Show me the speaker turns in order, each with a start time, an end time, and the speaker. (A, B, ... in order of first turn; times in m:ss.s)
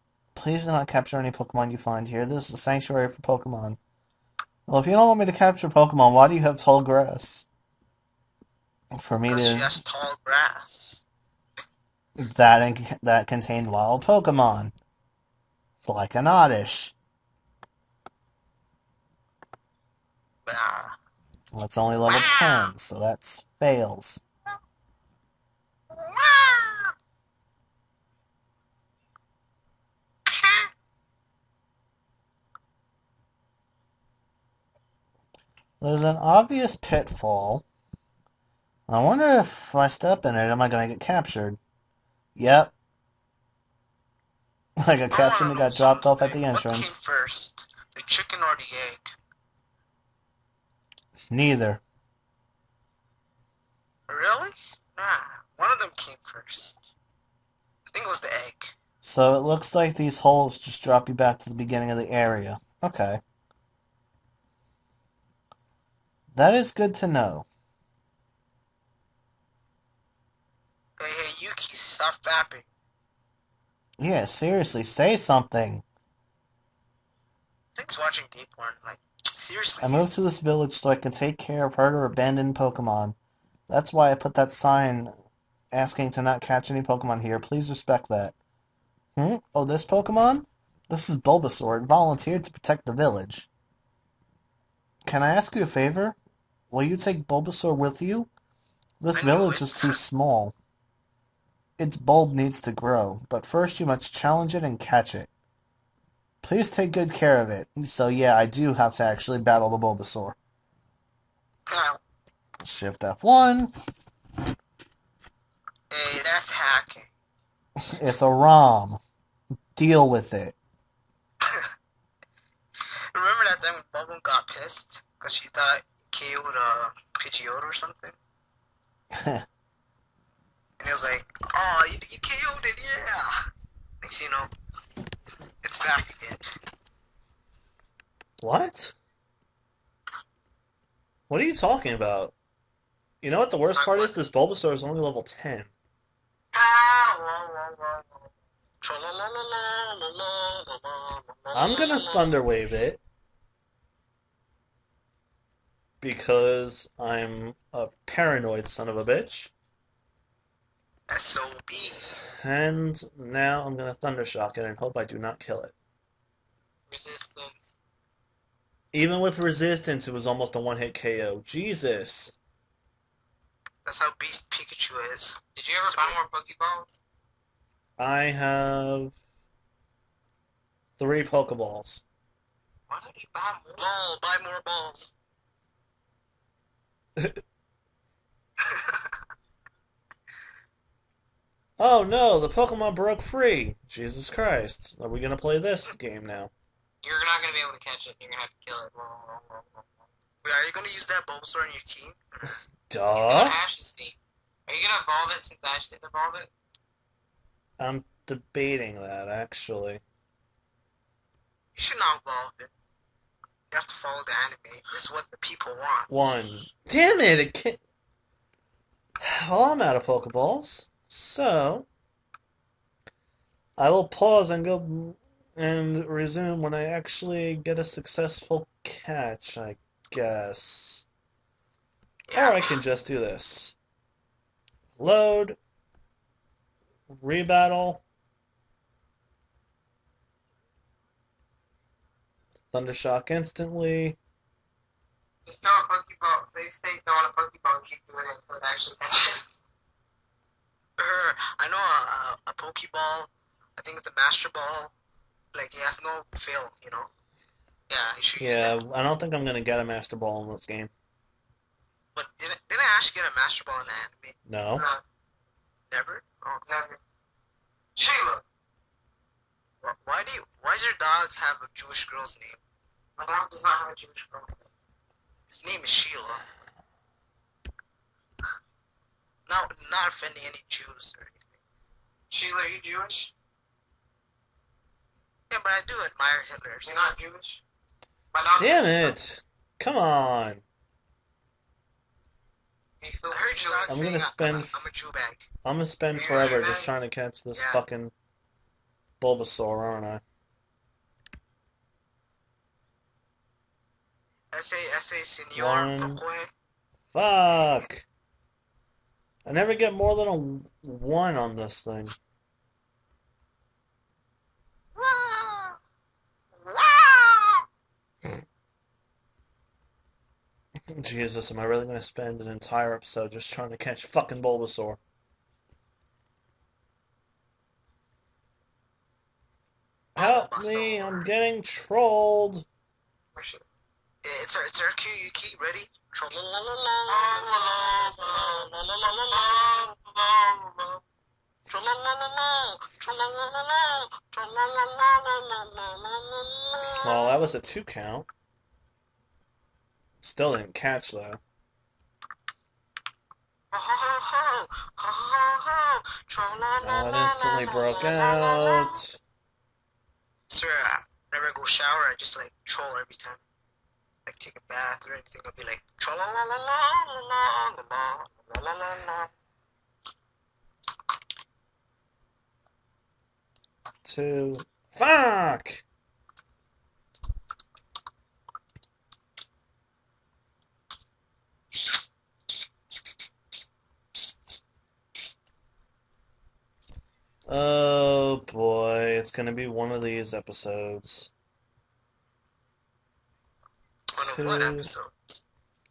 0:00.4-0:03.8 A
0:04.7-0:07.5 A
0:08.9-0:09.7 A
0:09.3-0:11.0 B
0:12.2-0:14.7 A
0:15.8-0:17.0 A
0:20.5-0:21.0 B
0:21.5-0:24.2 A
0:22.0-0:22.7 C
0:25.9-0:26.9 C
0:30.3-0:30.7 C
0:35.8-0:37.6 A
0:38.9-0:41.6 A
0:42.4-0:42.7 A
0:44.8-0:47.0 A
0:45.1-0:49.1 B
0:51.3-0:51.8 A
0:54.1-0:56.9 B
0:57.9-0:58.8 B
0:59.0-1:03.2 A
1:06.3-1:07.5 A
1:11.0-1:12.7 B
1:14.0-1:15.8 A
1:17.8-1:20.1 B
1:19.8-1:23.2 A
1:23.7-1:25.1 A
1:25.7-1:28.4 A
1:29.2-1:33.5 A
1:35.0-1:36.2 A
1:36.7-1:38.3 A
1:39.0-1:40.6 A
1:39.1-1:40.0 B
1:41.8-1:45.3 A
1:46.4-1:50.4 A
1:51.7-1:52.0 B
1:52.6-1:53.7 A
1:55.9-1:57.1 B
1:57.8-1:59.0 A
1:59.8-2:00.6 A
2:01.4-2:01.7 B
2:03.1-2:08.2 B
2:09.1-2:09.5 A
2:10.8-2:13.3 B
2:14.0-2:14.5 B
2:15.6-2:16.4 B
2:18.4-2:19.0 A
2:21.3-2:22.3 A
2:23.2-2:25.7 A
2:23.8-2:24.1 B
2:26.6-2:27.8 B
2:28.8-2:32.2 B
2:31.5-2:33.0 A
2:36.0-2:39.5 A
2:41.1-2:42.2 B
2:42.4-2:45.7 A
2:46.9-2:47.8 C
2:48.9-2:52.4 A
2:53.8-2:56.2 B
2:55.6-2:57.0 C
2:58.0-2:59.2 A
3:01.0-3:02.0 A
3:02.9-3:04.0 C
3:03.8-3:05.1 B
3:07.2-3:07.4 A
3:08.6-3:09.0 B
3:11.8-3:16.5 A
3:17.0-3:19.9 C
3:20.4-3:22.6 B
3:22.9-3:23.6 A
3:23.1-3:26.5 C
3:27.8-3:30.0 A
3:31.7-3:32.7 B
3:33.7-3:36.4 B
3:36.1-3:37.8 A
3:39.2-3:41.9 A
3:43.8-3:51.0 A
3:52.3-3:52.8 B
3:52.3-3:53.8 A
3:55.0-3:55.6 A
3:57.1-3:58.0 A
4:02.7-4:04.2 A
4:05.4-4:09.6 C
4:11.0-4:14.9 B
4:15.5-4:17.1 B
4:17.9-4:18.8 B
4:18.4-4:20.9 A
4:22.2-4:24.4 B
4:24.5-4:24.9 A
4:24.8-4:25.0 C
4:25.9-4:26.6 B
4:26.7-4:27.0 C
4:28.0-4:28.4 C
4:29.8-4:32.6 B
4:33.2-4:34.7 C
4:35.5-4:36.4 B
4:39.5-4:41.4 B
4:42.3-4:43.3 C
4:45.5-4:46.9 B
4:46.8-4:47.6 C
4:48.3-4:49.2 C
4:48.6-4:50.6 A
4:53.0-4:53.9 C
4:53.3-4:55.5 B
4:53.9-4:54.8 A
4:55.6-4:58.1 A
4:56.1-4:56.9 C
4:59.2-5:00.2 A
5:04.5-5:06.5 B
5:05.6-5:06.2 A
5:07.1-5:08.1 A
5:09.4-5:12.2 A
5:15.0-5:15.8 B
5:16.6-5:17.6 B
5:20.9-5:25.0 A
5:30.2-5:31.3 B
5:30.2-5:32.7 A
5:33.4-5:33.6 C
5:34.2-5:39.9 B
5:37.1-5:41.0 C
5:41.7-5:47.4 B
5:47.0-5:48.3 A
5:50.2-5:51.4 A
5:53.7-5:59.0 B
5:56.8-5:59.2 A
6:00.5-6:03.4 B
6:04.3-6:09.3 B
6:14.0-6:15.8 A
6:27.5-6:31.3 A
6:34.1-6:34.9 A
6:34.1-6:35.4 B